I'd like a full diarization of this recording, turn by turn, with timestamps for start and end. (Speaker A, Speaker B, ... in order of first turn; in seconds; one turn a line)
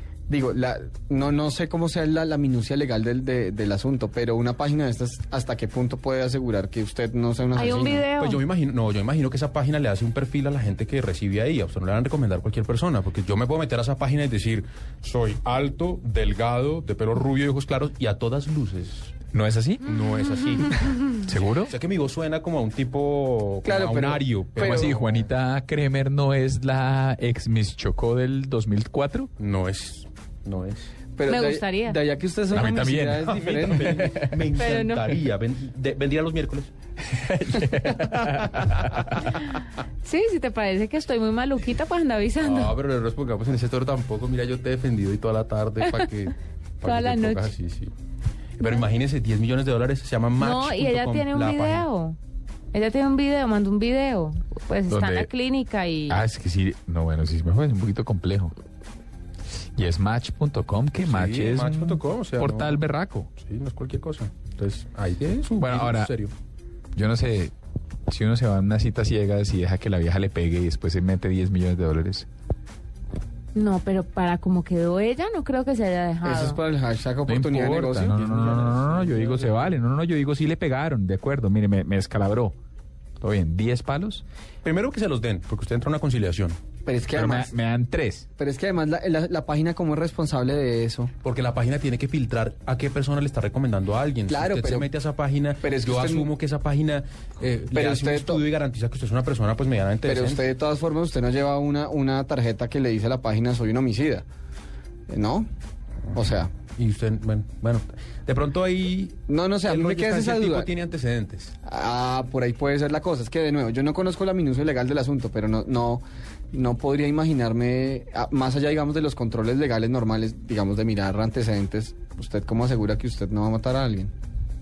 Speaker A: 0.3-8.1
Speaker B: 7.5-8.4
Speaker C: 8.2-19.1
Speaker D: 19.3-19.8
Speaker C: 19.8-25.3
Speaker D: 21.2-21.7
Speaker A: 23.6-24.9
Speaker D: 24.6-29.3
Speaker C: 29.4-30.9
Speaker A: 31.1-34.1
Speaker B: 31.2-32.0
Speaker D: 32.5-34.4
Speaker C: 32.6-36.7
Speaker B: 34.5-35.1
Speaker D: 37.1-39.3
Speaker B: 40.0-42.7
Speaker C: 42.4-47.9
Speaker B: 46.8-47.5
Speaker C: 48.6-51.9
Speaker B: 50.4-52.2
Speaker B: 52.7-56.2
Speaker D: 54.9-55.3
Speaker D: 56.1-58.5
Speaker D: 59.8-63.3
Speaker C: 61.0-62.8
Speaker C: 63.4-66.3
Speaker D: 65.6-66.1
Speaker D: 66.9-67.5
Speaker D: 68.1-72.3
Speaker B: 73.5-76.6
Speaker A: 76.2-78.2
Speaker D: 77.3-82.5
Speaker C: 78.2-79.7
Speaker D: 83.2-84.2
Speaker C: 84.6-86.6
Speaker A: 86.8-87.5
Speaker D: 87.1-88.3
Speaker A: 88.4-91.1
Speaker C: 91.2-100.4
Speaker A: 94.3-94.9
Speaker A: 95.6-96.3
Speaker A: 97.7-98.4
Speaker A: 100.0-104.2
Speaker A: 105.1-105.5
Speaker A: 106.1-106.5
Speaker C: 106.7-111.5
Speaker A: 109.3-110.7
Speaker A: 111.6-124.1